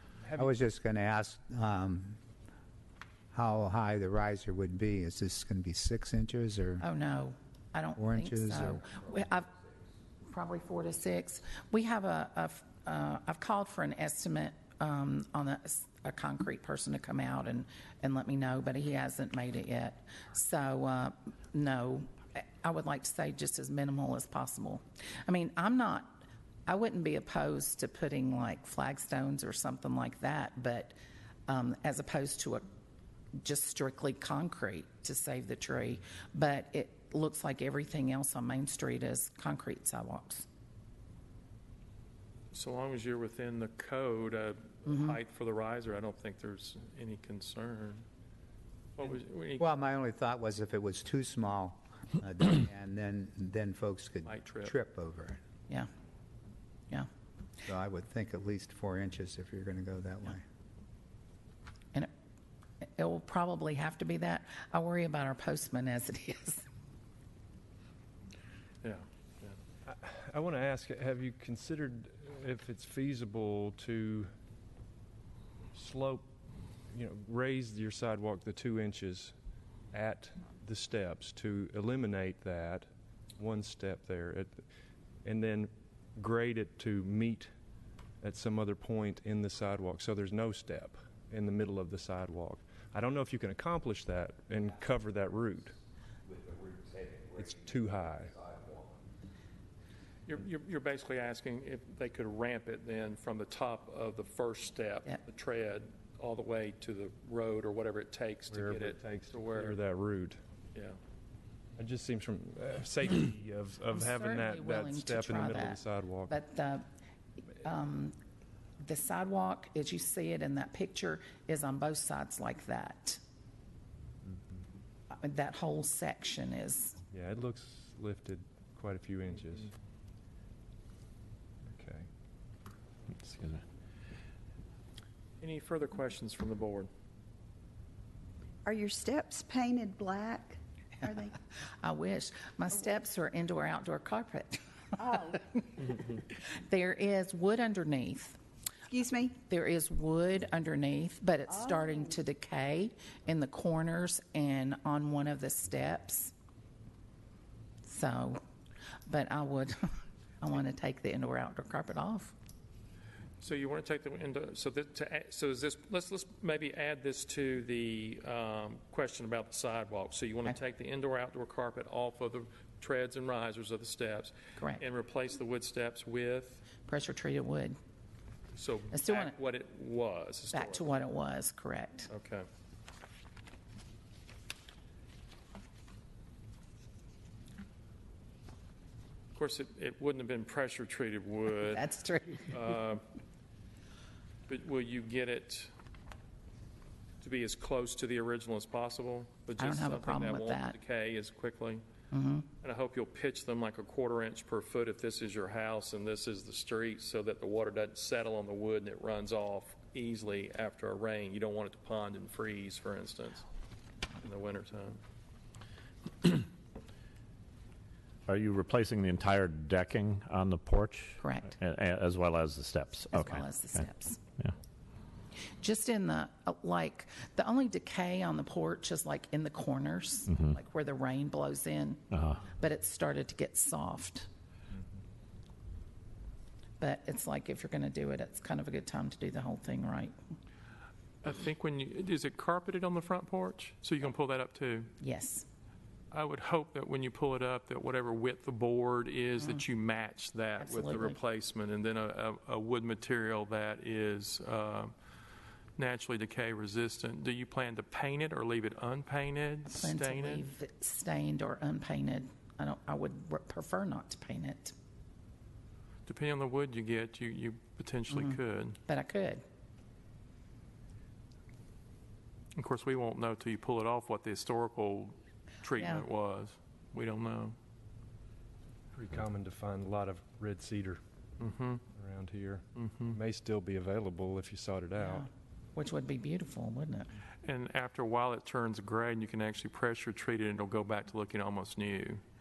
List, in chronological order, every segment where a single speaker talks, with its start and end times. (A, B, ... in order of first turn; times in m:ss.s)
0:00.4-0:02.2 A
0:03.3-0:06.8 A
0:06.8-0:09.5 B
0:08.0-0:09.1 A
0:10.2-0:31.0 B
0:31.5-0:32.6 B
0:33.4-0:40.5 B
0:42.5-0:48.0 C
0:44.9-0:45.2 B
0:49.0-0:49.7 C
0:49.6-0:55.4 A
0:54.2-0:54.8 C
0:57.6-1:00.4 A
1:02.8-1:06.6 B
1:08.8-1:09.5 C
1:09.8-1:14.3 D
1:15.7-1:16.3 D
1:16.9-1:19.3 D
1:19.9-1:24.6 D
1:25.2-1:27.5 D
1:28.2-1:35.8 D
1:37.3-1:38.7 D
1:40.3-1:49.8 C
1:48.5-1:50.4 D
1:51.8-1:56.4 D
1:53.9-1:56.8 B
1:57.6-1:58.1 B
1:58.8-2:03.2 B
2:05.1-2:07.0 B
2:07.1-2:09.7 D
2:11.7-2:12.1 D
2:13.1-2:13.6 E
2:15.4-2:16.9 C
2:18.6-2:21.3 F
2:21.8-2:25.9 B
2:25.0-2:25.4 F
2:26.5-2:28.4 B
2:28.9-2:29.4 F
2:29.4-2:36.3 B
2:31.6-2:32.0 F
2:37.8-2:38.4 B
2:39.1-2:42.3 B
2:43.4-2:56.7 C
2:54.6-2:54.8 B
2:56.8-2:57.7 B
2:58.5-3:00.9 C
2:58.9-2:59.3 B
3:00.5-3:02.1 B
3:02.1-3:02.4 C
3:09.3-3:11.8 C
3:11.6-3:12.7 B
3:12.5-3:13.0 C
3:14.5-3:15.7 C
3:17.2-3:21.8 C
3:19.6-3:20.8 B
3:22.1-3:22.5 B
3:22.6-3:33.4 C
3:34.2-3:35.0 C
3:38.3-3:43.9 E
3:41.2-3:41.5 B
3:43.1-3:44.2 B
3:45.6-3:54.2 B
3:52.1-3:52.4 E
3:56.8-4:00.1 B
4:01.2-4:04.9 C
4:05.0-4:05.4 B
4:06.1-4:14.9 C
4:10.6-4:11.2 B
4:15.8-4:20.4 C
4:19.7-4:24.7 B
4:26.1-4:28.8 C
4:28.1-4:29.4 B
4:32.5-4:37.5 C
4:35.8-4:36.0 B
4:38.9-4:41.0 D
4:41.4-4:41.8 C
4:41.9-4:45.3 D
4:42.8-4:43.2 C
4:45.0-4:47.1 B
4:47.4-4:52.2 C